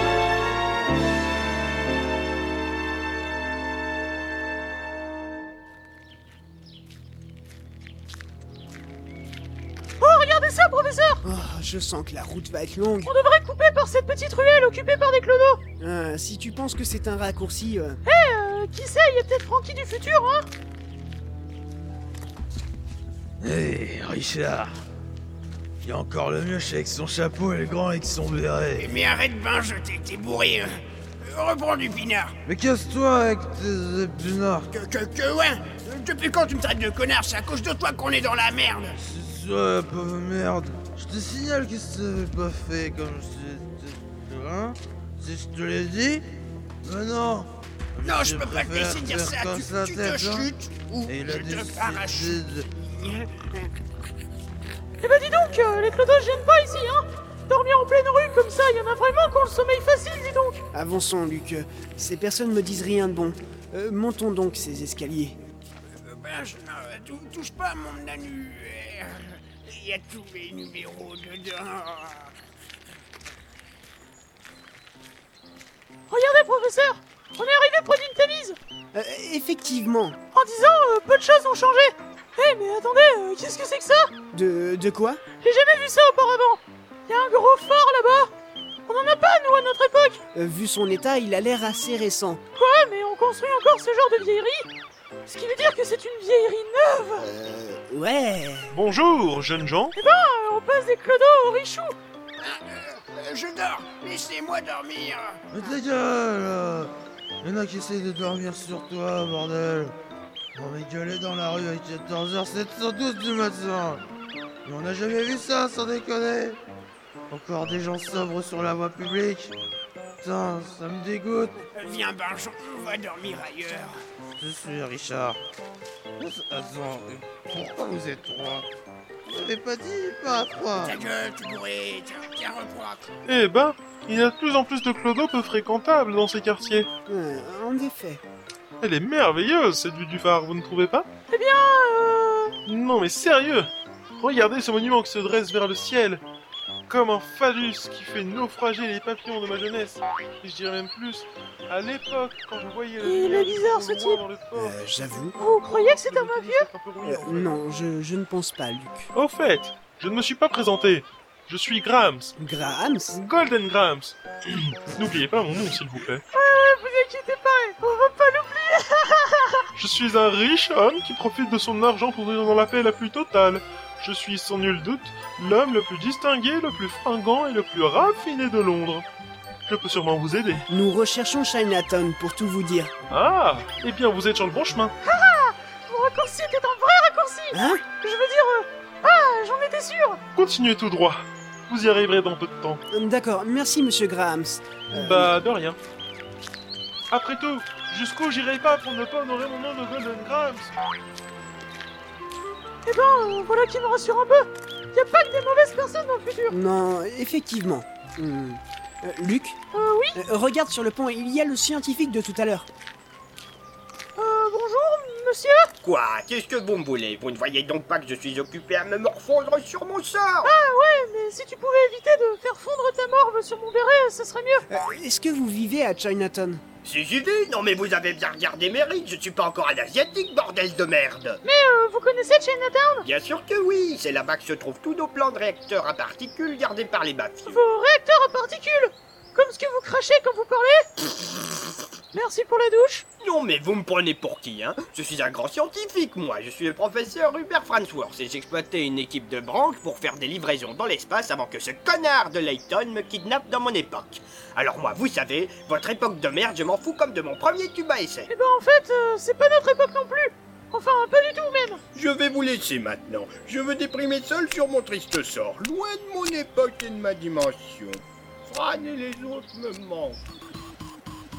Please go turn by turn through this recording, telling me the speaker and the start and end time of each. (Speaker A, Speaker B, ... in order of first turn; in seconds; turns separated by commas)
Speaker A: 10.0-11.2, Speaker B: 11.2-13.1, Speaker A: 13.0-15.6, Speaker B: 15.8-18.0, Speaker A: 18.1-20.5, Speaker C: 23.4-24.7, Speaker C: 25.8-29.0, Speaker D: 28.8-32.4, Speaker C: 32.5-34.7, Speaker D: 34.7-39.0, Speaker C: 39.1-46.2, Speaker C: 46.8-50.5, Speaker D: 48.0-53.3, Speaker C: 51.1-52.7, Speaker A: 55.0-60.6, Speaker B: 60.7-65.4, Speaker D: 66.0-72.3, Speaker A: 76.1-78.6, Speaker B: 78.9-80.2, Speaker A: 80.3-84.1, Speaker B: 84.3-85.2, Speaker A: 85.4-88.3, Speaker A: 88.9-90.2, Speaker B: 90.3-92.4, Speaker A: 92.6-94.7, Speaker A: 95.3-97.3, Speaker B: 97.2-98.8, Speaker E: 98.7-99.9, Speaker A: 100.0-102.0, Speaker D: 102.4-105.4, Speaker C: 105.5-106.9, Speaker C: 107.4-109.9, Speaker C: 110.5-114.0, Speaker C: 114.7-116.6, Speaker C: 117.3-119.5, Speaker C: 120.2-121.6, Speaker D: 121.7-124.0, Speaker C: 124.4-125.4, Speaker C: 126.2-128.7, Speaker C: 129.3-131.0, Speaker D: 130.8-133.1, Speaker E: 133.3-136.9, Speaker B: 137.1-138.2, Speaker E: 138.8-141.1, Speaker A: 141.3-142.6, Speaker E: 142.7-146.2, Speaker E: 146.9-157.5, Speaker A: 153.0-154.2, Speaker B: 154.6-155.3, Speaker A: 155.4-156.7, Speaker B: 157.0-159.1, Speaker E: 159.1-162.3, Speaker B: 162.4-163.2, Speaker E: 163.2-166.2, Speaker A: 166.3-169.7, Speaker E: 169.8-179.1, Speaker E: 179.7-180.7, Speaker B: 180.7-182.9, Speaker E: 183.1-184.9, Speaker A: 185.0-190.2, Speaker B: 187.5-187.8, Speaker E: 190.4-192.8, Speaker B: 192.9-195.3, Speaker E: 194.9-195.8, Speaker E: 197.1-200.7, Speaker A: 202.8-206.6, Speaker B: 206.5-209.6, Speaker A: 209.7-210.2, Speaker B: 210.2-212.7, Speaker A: 214.2-215.7, Speaker F: 215.8-220.5, Speaker A: 220.4-224.7, Speaker B: 224.7-226.6, Speaker F: 226.8-231.4, Speaker A: 231.4-233.1, Speaker F: 233.0-237.6, Speaker A: 237.5-240.9, Speaker A: 242.1-243.1, Speaker F: 243.2-258.3, Speaker A: 258.3-261.8, Speaker F: 261.9-270.2